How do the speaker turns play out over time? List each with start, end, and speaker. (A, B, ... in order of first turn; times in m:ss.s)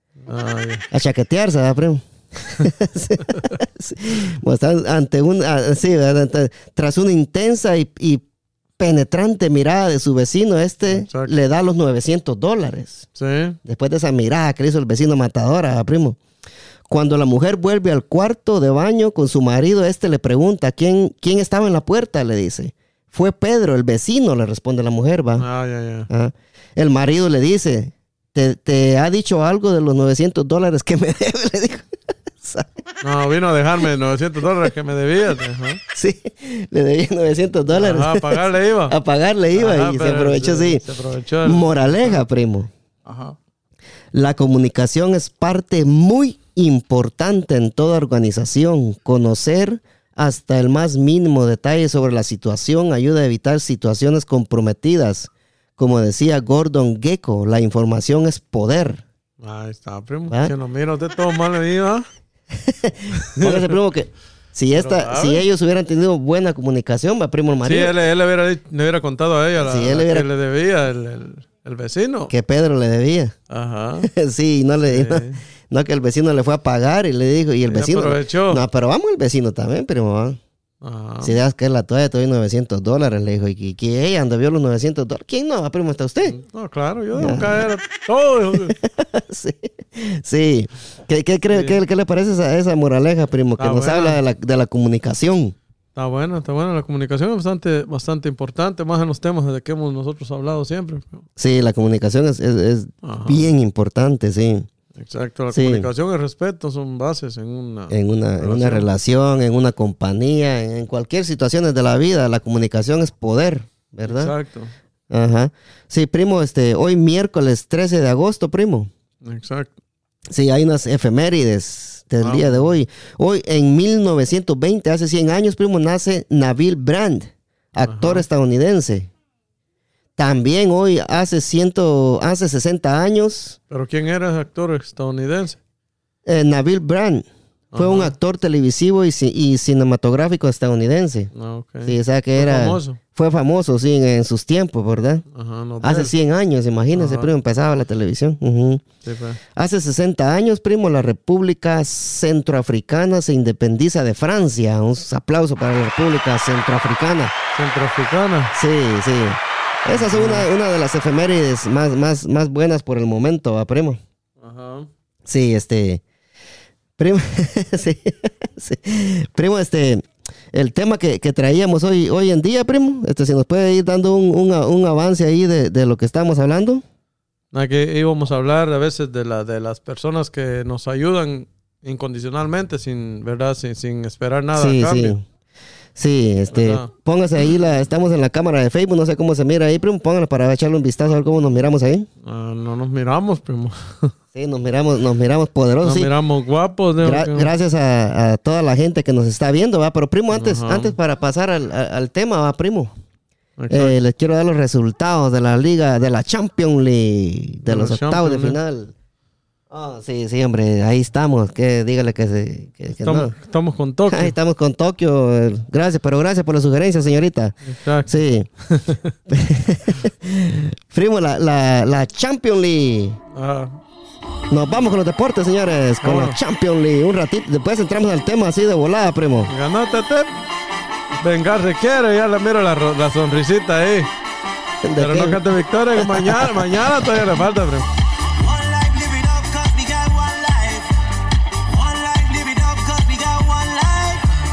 0:00.2-0:00.8 A
0:00.9-0:08.2 B
0:08.8-0:13.1 B
0:10.8-0:11.3 A
0:13.2-0:13.6 A
0:13.6-0:16.2 B
0:16.9-0:25.5 B
0:25.4-0:26.1 A
0:26.1-0:31.9 B
0:32.4-0:32.7 B
0:33.0-0:35.8 A
0:35.9-0:40.8 B
0:37.7-0:39.0 A
0:39.6-0:42.3 A
0:41.4-0:42.7 B
0:43.0-0:43.4 A
0:44.1-0:59.0 B
0:59.4-1:02.1 A
1:02.7-1:08.0 B
1:03.1-1:03.8 A
1:04.7-1:05.4 A
1:07.6-1:12.3 A
1:09.6-1:10.3 B
1:12.3-1:13.3 B
1:13.5-1:14.1 A
1:14.0-1:20.4 B
1:14.8-1:15.4 A
1:17.7-1:18.6 A
1:20.8-1:21.4 A
1:21.2-1:26.4 B
1:26.2-1:28.8 A
1:27.2-1:27.7 B
1:28.8-1:35.6 B
1:31.5-1:31.8 A
1:33.6-1:34.2 A
1:36.0-1:41.2 A
1:41.4-1:44.7 B
1:43.0-1:43.4 A
1:45.0-1:48.9 A
1:45.5-1:45.9 B
1:47.9-1:54.3 B
1:54.1-1:54.7 A
1:55.1-1:58.9 B
1:59.2-1:59.7 A
2:00.3-2:09.1 B
2:02.2-2:02.7 A
2:07.9-2:08.3 A
2:10.2-2:13.6 B
2:13.7-2:15.6 A
2:16.3-2:21.3 B
2:17.7-2:18.2 A
2:21.3-2:23.0 A
2:21.8-2:25.2 B
2:25.3-2:26.1 A
2:25.8-2:28.8 B
2:26.9-2:27.3 A
2:29.0-2:29.4 A
2:29.6-2:37.3 B
2:37.5-2:38.5 A
2:38.5-2:44.0 B
2:39.9-2:40.5 A
2:44.4-2:44.9 A
2:45.3-2:46.0 B
2:47.0-2:56.8 B
2:57.5-3:05.2 A
3:04.6-3:05.2 B
3:06.0-3:12.1 B
3:06.5-3:06.9 A
3:12.2-3:14.1 A
3:14.3-3:16.1 B
3:15.8-3:17.5 A
3:17.0-3:22.9 B
3:20.3-3:21.0 A
3:23.6-3:24.0 A
3:23.7-3:28.9 B
3:27.7-3:28.6 A
3:29.7-3:33.3 B
3:33.0-3:34.4 A
3:34.1-3:38.5 B
3:37.6-3:38.1 A
3:38.6-3:39.1 A
3:39.3-3:43.2 B
3:43.3-3:43.8 A
3:44.5-3:49.5 B
3:46.0-3:46.4 A
3:49.5-3:50.3 A
3:51.2-3:54.1 A
3:54.8-3:55.4 B
3:55.0-3:57.9 A
3:56.0-3:56.8 B
3:58.3-4:00.9 C
4:01.7-4:04.3 C